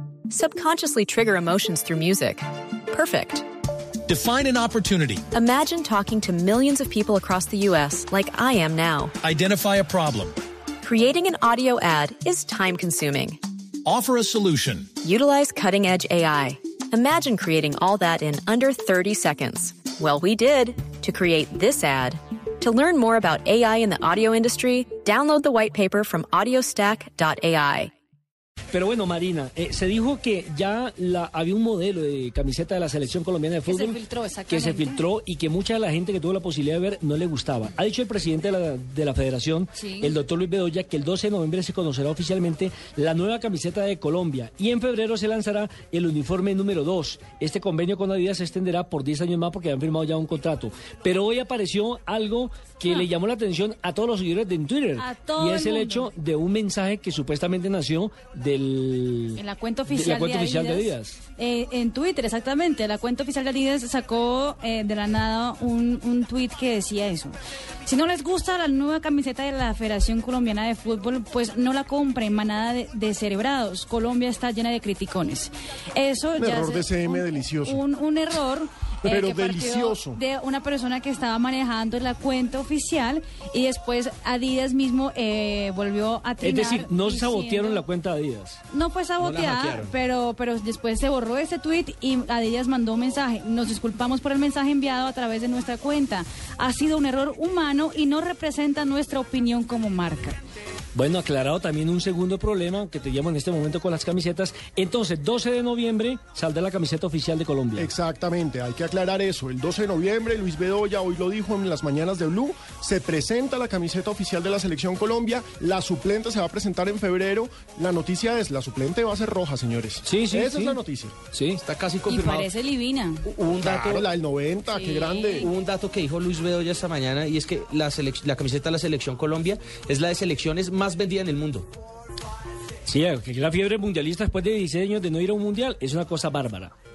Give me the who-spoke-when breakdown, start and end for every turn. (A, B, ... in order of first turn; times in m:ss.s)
0:00.3-0:03.4 A
0:04.0-0:05.2 B
0:05.3-0:09.1 A
0:09.2-0:10.4 B
0:10.8-0:13.4 A
0:13.8-0:14.9 B
0:15.0-0:27.9 A
0:28.7-1:01.2 C
0:33.7-0:35.0 D
0:39.8-0:40.1 D
0:55.0-0:56.1 D
0:59.4-1:27.8 D
1:16.4-1:17.8 E
1:19.0-1:20.2 E
1:26.4-1:28.6 C
1:28.7-1:40.4 D
1:29.2-1:30.0 F
1:40.9-1:47.9 C
1:47.7-2:01.2 E
2:00.0-2:00.8 C
2:01.3-2:01.6 C
2:01.6-2:02.5 F
2:02.0-2:03.3 D
2:03.3-2:04.0 F
2:03.6-2:05.5 E
2:04.7-2:05.5 D
2:05.4-2:11.7 F
2:12.8-2:16.7 C